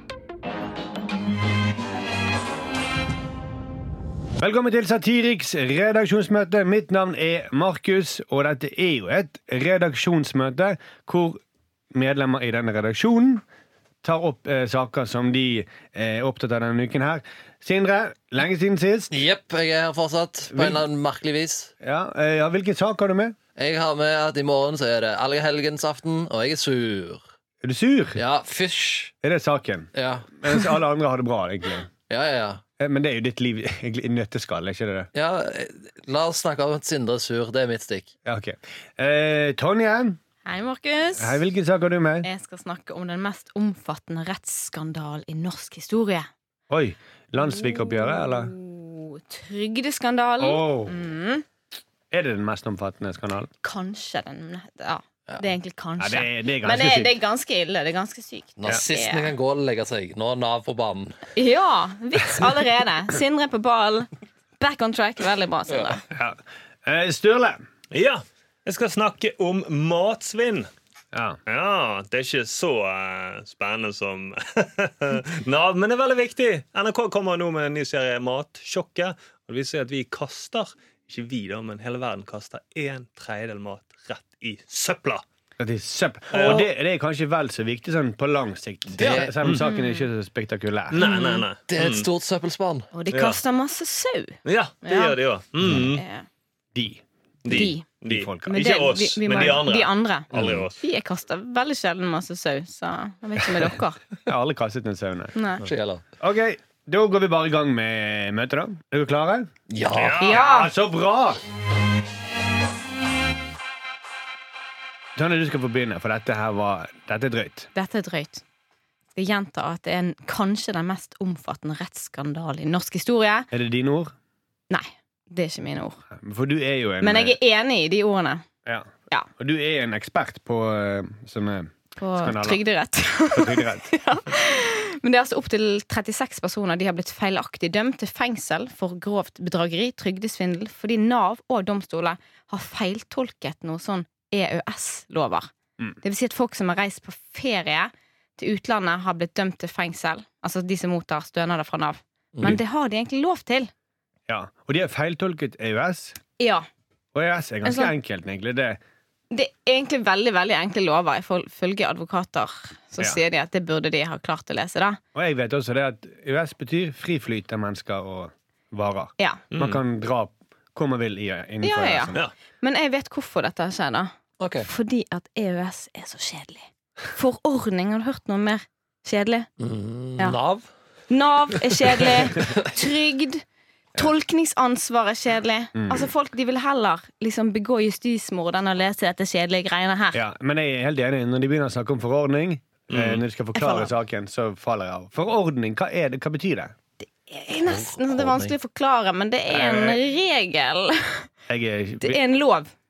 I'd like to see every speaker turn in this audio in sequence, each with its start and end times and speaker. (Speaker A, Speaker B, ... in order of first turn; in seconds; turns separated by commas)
Speaker A: 4.4-11.4, Speaker A: 11.9-13.4, Speaker A: 14.0-19.1, Speaker B: 19.1-21.7, Speaker A: 20.5-20.8, Speaker A: 21.8-23.4, Speaker B: 23.6-27.2, Speaker A: 27.6-28.2, Speaker B: 28.1-29.1, Speaker A: 29.2-31.9, Speaker B: 29.9-30.3, Speaker B: 32.1-32.6, Speaker A: 32.8-35.1, Speaker B: 35.1-38.1, Speaker A: 38.2-40.2, Speaker C: 40.4-41.4, Speaker A: 41.2-42.3, Speaker C: 42.2-46.3, Speaker A: 46.7-48.5, Speaker C: 47.4-51.4, Speaker A: 50.4-51.0, Speaker A: 52.1-53.5, Speaker C: 53.6-59.3, Speaker A: 56.0-57.1, Speaker B: 58.6-61.2, Speaker C: 61.3-64.1, Speaker C: 64.6-66.0, Speaker A: 66.1-67.6, Speaker D: 67.9-70.7, Speaker A: 71.1-71.4, Speaker D: 71.5-85.2, Speaker A: 85.6-91.0, Speaker D: 86.3-86.7, Speaker C: 86.3-86.6, Speaker B: 89.0-89.4, Speaker D: 89.1-89.6, Speaker C: 89.6-90.1, Speaker D: 90.9-92.1, Speaker C: 91.0-91.5, Speaker B: 91.7-92.9, Speaker C: 92.9-95.2, Speaker D: 93.1-93.4, Speaker D: 94.4-96.0, Speaker C: 95.8-96.2, Speaker A: 96.7-98.7, Speaker D: 97.4-100.8, Speaker C: 97.5-97.8, Speaker C: 98.5-104.0, Speaker A: 100.3-100.6, Speaker B: 100.3-100.6, Speaker A: 104.2-105.4, Speaker C: 105.3-105.6, Speaker B: 105.6-106.0, Speaker A: 106.2-109.5, Speaker B: 109.7-110.4, Speaker D: 109.9-110.4, Speaker C: 110.2-110.7, Speaker A: 110.3-111.4, Speaker A: 115.2-117.7, Speaker C: 117.7-118.4, Speaker C: 119.2-123.5, Speaker A: 123.5-124.1, Speaker C: 124.7-126.0, Speaker A: 126.1-127.4, Speaker C: 127.0-128.4, Speaker A: 128.7-132.6, Speaker C: 132.0-145.5, Speaker A: 133.3-133.9, Speaker C: 146.0-153.7, Speaker A: 154.3-156.2, Speaker C: 156.4-156.7, Speaker A: 157.1-158.8, Speaker C: 157.6-157.9, Speaker C: 159.3-165.0, Speaker A: 165.1-172.2, Speaker D: 169.5-169.8, Speaker C: 171.6-174.1, Speaker B: 174.4-174.7, Speaker C: 174.6-179.5, Speaker B: 179.6-180.7, Speaker C: 181.1-183.4, Speaker B: 182.2-182.6, Speaker C: 183.9-190.2, Speaker A: 185.7-186.1, Speaker A: 190.1-196.7, Speaker D: 192.9-193.2, Speaker C: 193.6-193.9, Speaker C: 197.2-201.3, Speaker B: 197.7-198.5, Speaker A: 199.5-200.0, Speaker A: 201.5-202.2, Speaker C: 202.0-202.7